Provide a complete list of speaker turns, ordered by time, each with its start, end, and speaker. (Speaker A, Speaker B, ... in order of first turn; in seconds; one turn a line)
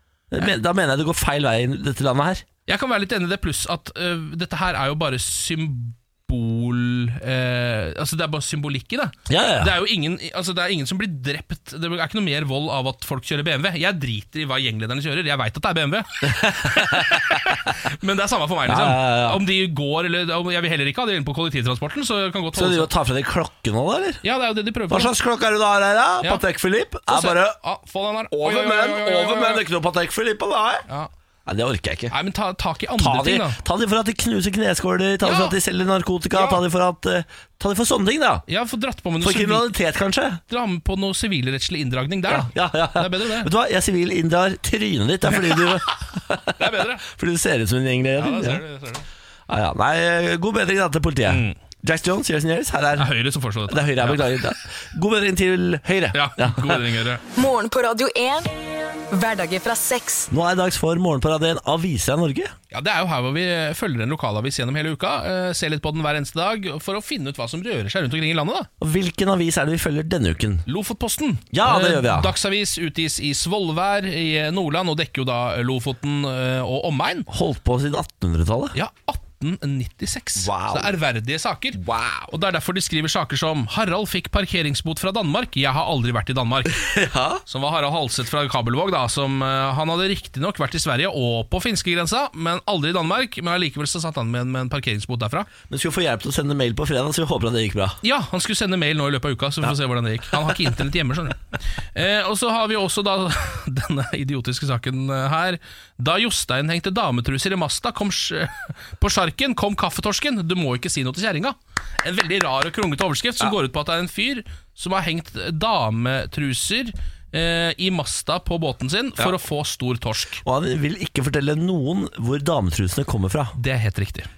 Speaker A: 0.3-2.4
Speaker B: 2.7-22.9
Speaker A: 9.3-9.8
Speaker A: 16.3-17.3
Speaker A: 18.7-19.4
Speaker A: 22.5-24.2
Speaker B: 24.2-25.1
Speaker A: 24.9-27.6
Speaker B: 27.1-29.6
Speaker A: 28.3-30.9
Speaker A: 31.4-32.1
Speaker B: 32.1-33.6
Speaker A: 33.0-38.5
Speaker B: 35.2-35.6
Speaker B: 36.3-36.6
Speaker B: 38.5-39.7
Speaker A: 39.2-40.4
Speaker B: 40.5-43.5
Speaker A: 42.3-48.6
Speaker B: 45.3-47.1
Speaker B: 48.2-49.1
Speaker A: 49.5-53.1
Speaker B: 51.3-51.5
Speaker B: 53.0-54.3
Speaker A: 53.7-56.8
Speaker B: 56.1-57.2
Speaker C: 57.3-58.5
Speaker C: 59.1-60.3
Speaker A: 60.3-62.5
Speaker B: 62.7-68.7
Speaker A: 68.8-70.7
Speaker B: 70.7-77.3
Speaker A: 71.5-72.3
Speaker A: 77.3-78.8
Speaker B: 78.7-81.8
Speaker A: 80.3-80.9
Speaker A: 81.7-82.3
Speaker B: 82.3-86.8
Speaker A: 86.7-87.4
Speaker B: 87.5-95.5
Speaker A: 95.7-98.0
Speaker B: 98.0-120.4
Speaker A: 120.4-123.6
Speaker B: 123.6-124.3